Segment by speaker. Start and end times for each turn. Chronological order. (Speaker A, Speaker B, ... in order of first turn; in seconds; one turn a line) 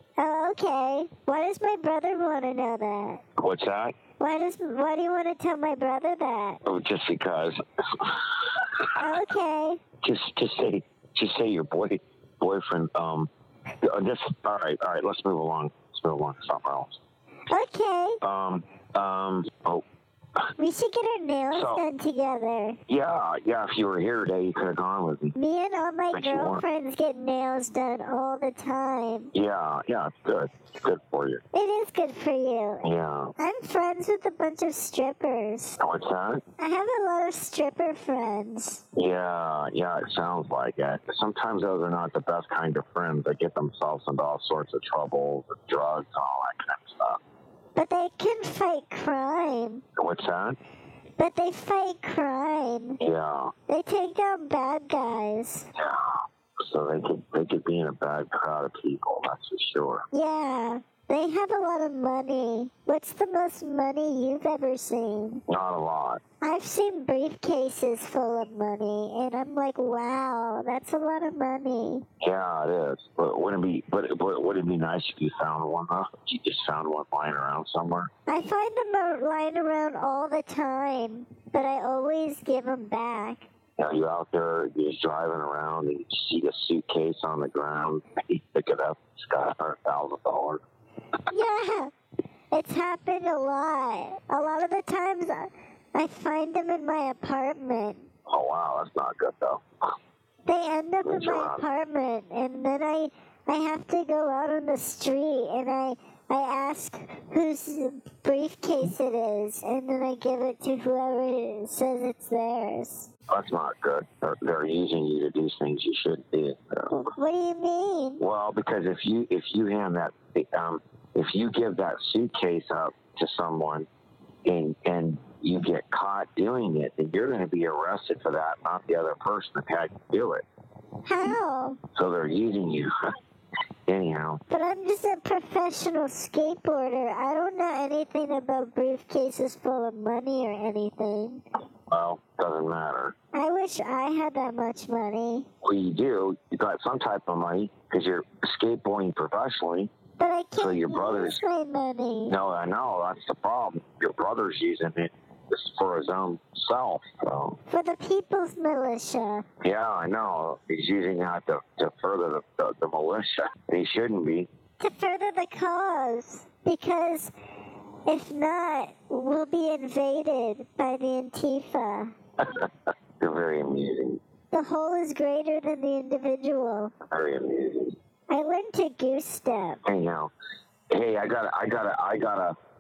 Speaker A: 0.2-3.2
Speaker B: 3.4-3.9
Speaker A: 4.2-6.6
Speaker B: 6.6-9.0
Speaker A: 9.0-9.8
Speaker B: 10.0-13.3
Speaker B: 13.8-17.0
Speaker A: 17.5-18.2
Speaker B: 18.2-19.8
Speaker A: 20.6-22.8
Speaker B: 21.5-21.8
Speaker B: 22.9-25.3
Speaker A: 25.3-29.3
Speaker B: 26.1-26.6
Speaker B: 29.3-31.4
Speaker A: 31.5-35.8
Speaker B: 32.8-33.3
Speaker B: 35.8-36.4
Speaker A: 36.6-38.8
Speaker B: 38.9-47.2
Speaker A: 47.7-49.8
Speaker B: 50.0-50.6
Speaker A: 51.2-53.0
Speaker B: 53.0-53.5
Speaker A: 53.7-55.7
Speaker B: 55.8-60.0
Speaker A: 60.1-65.4
Speaker B: 65.5-66.2
Speaker A: 66.4-72.0
Speaker B: 72.2-78.1
Speaker A: 78.3-83.5
Speaker B: 83.8-90.6
Speaker A: 91.3-91.9
Speaker A: 92.5-98.1
Speaker B: 98.3-99.6
Speaker A: 100.4-113.1
Speaker B: 101.0-101.7
Speaker B: 113.3-117.0
Speaker A: 116.9-118.2
Speaker B: 118.2-123.9
Speaker B: 124.4-130.4
Speaker A: 131.0-131.8
Speaker B: 131.9-132.9
Speaker B: 133.9-134.4
Speaker A: 134.5-141.4
Speaker B: 141.9-143.1
Speaker A: 143.3-145.5
Speaker B: 145.6-149.9
Speaker A: 150.2-152.3
Speaker B: 150.6-151.4
Speaker B: 152.3-157.6
Speaker A: 157.7-159.4
Speaker B: 159.6-164.5
Speaker A: 164.8-167.3
Speaker A: 168.1-172.1
Speaker B: 172.4-172.7
Speaker B: 173.2-174.2
Speaker A: 174.5-176.9
Speaker B: 177.1-177.9
Speaker A: 178.3-179.8
Speaker B: 179.8-180.3
Speaker B: 180.9-182.6